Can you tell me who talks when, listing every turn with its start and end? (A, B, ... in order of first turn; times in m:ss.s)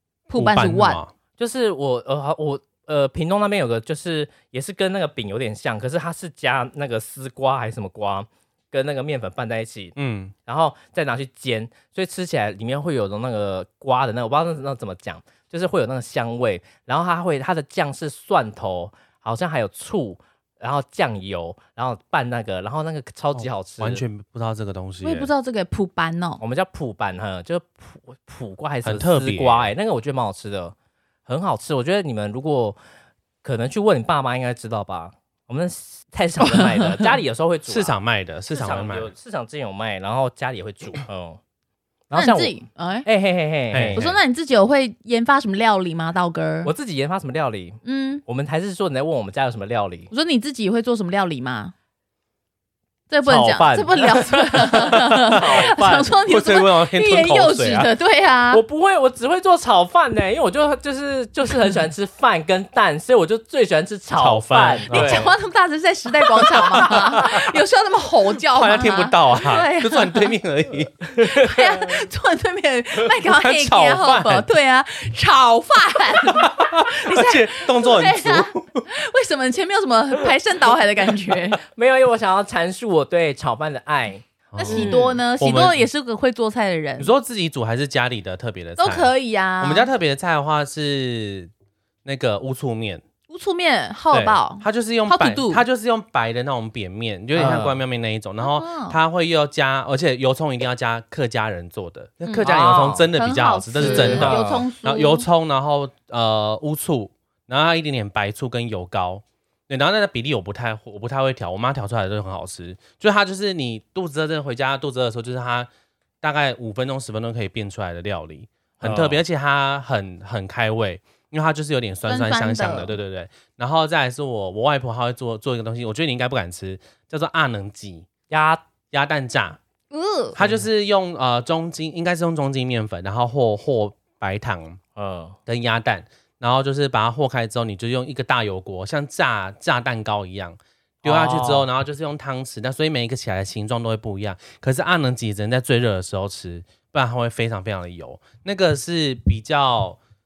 0:00.3-0:01.0 A
0:00.4-0:01.1 B
0:01.4-0:09.9 C
0:10.0-0:10.3 B
0:10.4-0:24.0 C
0:23.3-0:25.3 B
0:25.0-0:26.4 A
0:26.4-0:30.7 C
0:28.8-0:29.7 B
0:31.3-0:32.8 C
0:33.4-0:38.0 C
0:36.4-0:37.1 A
0:37.7-0:39.1 B
0:38.5-0:41.4 C
0:42.1-0:44.1 C
0:42.1-0:43.1 A
0:43.7-0:44.1 B
0:44.0-0:46.7 A
0:46.6-0:50.1 C
0:47.8-0:48.2 A
0:50.1-0:51.7 A
0:53.1-0:58.6 A
0:53.2-0:56.1 C
0:56.3-0:57.9 B
0:58.5-1:05.3 C
1:04.1-1:05.3 B
1:04.9-1:10.3 A
1:06.5-1:06.9 C
1:06.8-1:07.3 B
1:08.5-1:11.2 B
1:11.2-1:21.6 A
1:13.3-1:14.5 B
1:16.4-1:18.8 B
1:21.6-1:25.2 C
1:24.5-1:25.8 B
1:24.6-1:27.1 A
1:27.0-1:31.5 B
1:28.8-1:29.9 A
1:32.0-1:33.0 B
1:33.3-1:35.6 A
1:34.1-1:55.7 B
1:37.3-1:37.8 C
1:38.4-1:39.0 A
1:42.2-1:45.3 A
1:42.4-1:43.1 C
1:43.8-1:44.6 C
1:56.2-2:08.1 B
1:58.8-1:59.2 C
2:02.0-2:03.0 A
2:08.3-2:08.6 C
2:08.9-2:09.6 B
2:09.9-2:10.4 A
2:10.3-2:14.8 B
2:15.0-2:15.4 C
2:15.4-2:30.0 B
2:21.0-2:21.7 C